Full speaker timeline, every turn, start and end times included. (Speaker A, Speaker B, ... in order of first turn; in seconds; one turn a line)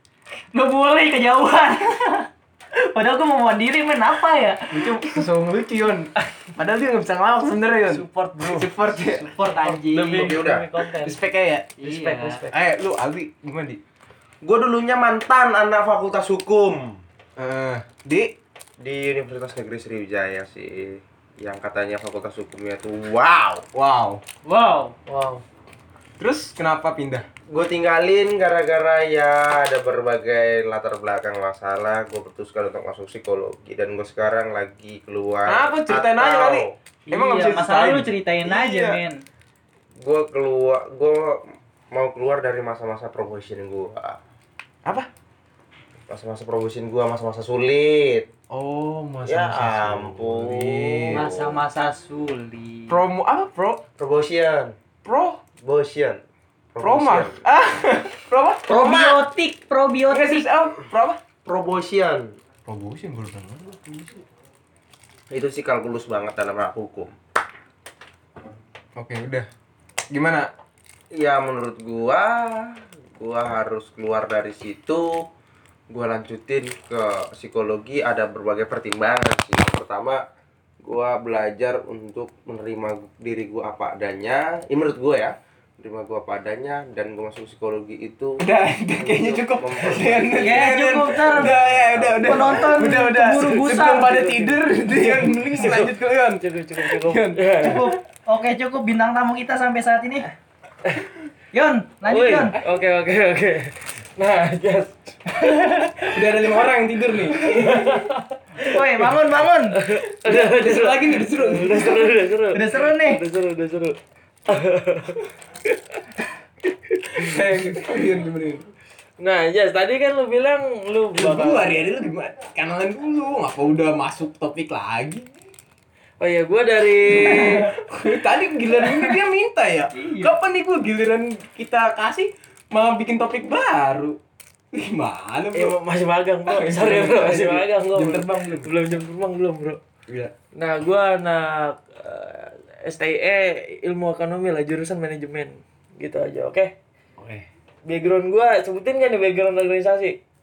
Speaker A: 0.5-2.3
Speaker A: 2.8-5.2
Speaker B: 4.7-10.5
Speaker C: 7.9-8.7
Speaker A: 8.9-10.4
Speaker C: 10.1-11.2
Speaker D: 10.1-10.7
Speaker B: 11.0-11.8
Speaker A: 11.8-12.4
Speaker C: 11.8-12.5
Speaker B: 12.5-13.8
Speaker D: 14.4-17.0
Speaker B: 17.4-18.3
Speaker D: 18.8-23.6
Speaker B: 23.7-24.2
Speaker A: 24.4-24.9
Speaker C: 25.1-25.4
Speaker B: 26.2-27.3
Speaker D: 27.5-36.8
Speaker B: 35.5-39.0
Speaker A: 37.1-39.2
Speaker D: 40.0-44.2
Speaker D: 46.1-48.3
Speaker B: 48.5-51.2
Speaker D: 49.2-51.6
Speaker A: 51.1-53.0
Speaker B: 52.9-53.8
Speaker D: 54.0-54.7
Speaker B: 55.0-55.4
Speaker D: 55.6-56.2
Speaker D: 56.7-57.4
Speaker B: 56.8-59.1
Speaker A: 58.7-60.5
Speaker D: 58.8-59.2
Speaker B: 60.1-61.2
Speaker D: 61.5-62.3
Speaker B: 62.7-64.2
Speaker D: 65.3-67.1
Speaker B: 69.0-69.5
Speaker B: 70.1-70.5
Speaker D: 71.1-75.2
Speaker D: 75.9-80.2
Speaker D: 80.8-88.4
Speaker B: 88.4-98.0
Speaker D: 89.0-93.0
Speaker A: 90.4-91.5
Speaker A: 92.2-94.2
Speaker C: 94.1-97.9
Speaker A: 97.6-100.3
Speaker A: 101.5-102.6
Speaker C: 102.1-105.2
Speaker A: 105.4-106.1
Speaker B: 106.1-108.0
Speaker C: 107.2-109.2
Speaker A: 108.6-109.8
Speaker C: 109.8-114.0
Speaker B: 110.2-112.1
Speaker A: 112.5-113.2
Speaker C: 114.5-115.8
Speaker C: 117.0-117.4
Speaker B: 117.2-118.7
Speaker C: 119.2-121.7
Speaker B: 121.2-125.3
Speaker C: 126.2-127.7
Speaker B: 127.2-134.2
Speaker A: 129.9-130.3
Speaker B: 134.7-135.8
Speaker C: 135.5-139.8
Speaker B: 136.5-138.7
Speaker B: 140.1-140.3
Speaker C: 140.6-146.7
Speaker B: 147.2-147.5
Speaker C: 147.9-150.2